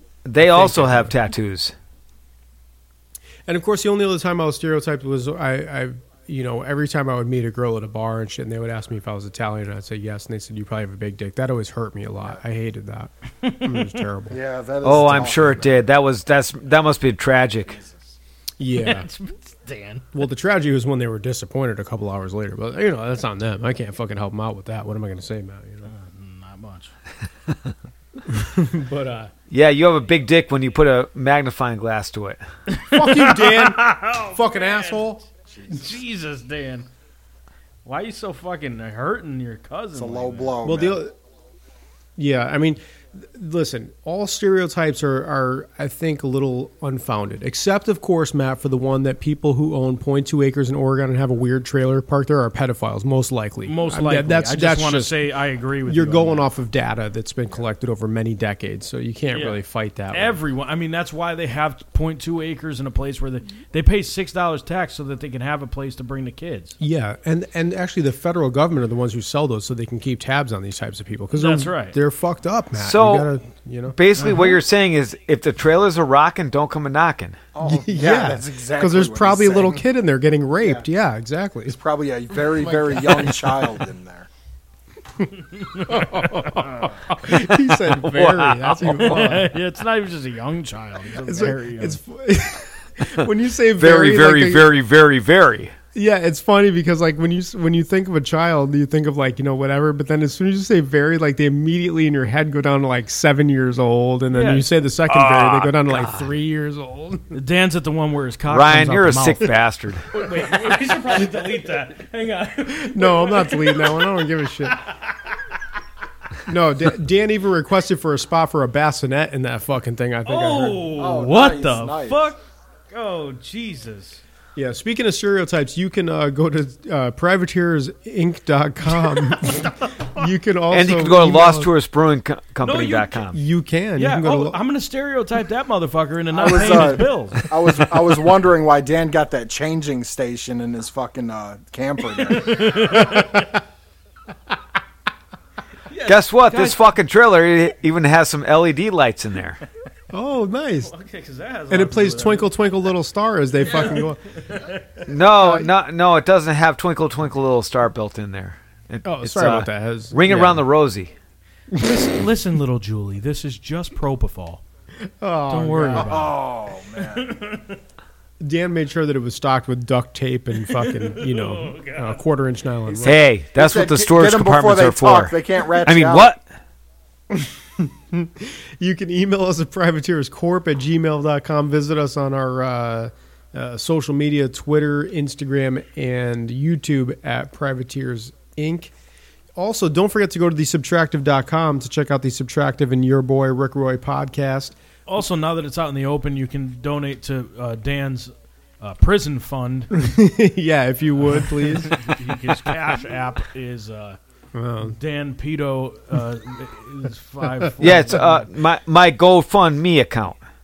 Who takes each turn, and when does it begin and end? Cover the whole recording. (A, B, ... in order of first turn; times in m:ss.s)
0:00.2-0:01.7 A
0:00.4-0:01.1 B
0:03.5-0:14.4 B
0:13.4-0:14.0 C
0:14.3-0:15.8 D
0:14.8-0:17.8 A
0:17.6-0:18.2 D
0:18.6-0:19.1 B
0:18.7-0:20.0 C
0:20.1-0:25.9 B
0:25.8-0:26.9 C
0:28.2-0:29.3 B
0:29.5-0:32.4 A
0:32.7-0:36.9 C
0:32.9-0:35.2 B
0:35.5-0:36.0 D
0:37.8-0:40.6 C
0:39.9-0:41.0 D
0:40.6-0:41.1 B
0:42.2-0:55.3 B
0:53.6-0:56.5 C
0:55.8-1:00.4 B
0:59.3-1:06.8 C
1:06.8-1:14.0 B
1:11.3-1:12.0 C
1:12.8-1:13.3 A
1:13.9-1:17.4 A
1:14.2-1:14.6 C
1:17.5-1:19.8 D
1:17.6-1:21.8 B
1:21.7-1:24.3 D
1:22.3-1:23.7 B
1:25.6-1:27.2 C
1:25.8-1:29.5 B
1:27.9-1:29.2 A
1:29.0-1:32.0 C
1:31.1-1:34.7 B
1:33.8-1:35.7 A
1:35.9-1:47.3 B
1:44.3-1:45.7 C
1:45.9-1:46.2 A
1:47.3-1:49.5 C
1:48.5-1:50.0 A
1:50.1-1:55.3 C
1:52.7-1:54.8 B
1:56.4-2:01.0 B
2:00.2-2:02.4 C
2:00.9-2:02.3 D
2:02.9-2:04.2 C
2:04.6-2:11.7 B
2:09.0-2:10.2 C
2:10.7-2:13.4 A
2:12.6-2:13.2 C
2:13.3-2:14.6 B
2:14.0-2:17.5 C
2:16.3-2:23.0 D
2:22.3-2:23.6 C
2:22.8-2:23.4 B
2:25.9-2:26.9 C
2:26.0-2:29.6 A
2:30.1-2:30.9 B
2:30.8-2:32.6 C
2:31.7-2:34.2 B
2:33.6-2:34.8 C
2:35.0-2:41.1 A
2:35.3-2:35.7 B
2:39.0-2:40.6 B
2:41.7-2:42.1 B
2:41.8-2:44.6 C
2:45.0-2:46.2 B
2:45.5-2:47.8 C
2:46.0-2:47.3 D
2:48.4-2:53.2 B
2:50.6-2:52.2 C
2:52.8-2:56.3 D
2:53.0-2:56.4 A
2:57.3-3:08.9 B
3:09.6-3:14.8 B
3:15.1-3:19.9 C
3:19.9-3:22.2 B
3:21.2-3:24.2 C
3:24.5-3:25.0 B
3:24.8-3:28.5 C
3:27.8-3:30.4 A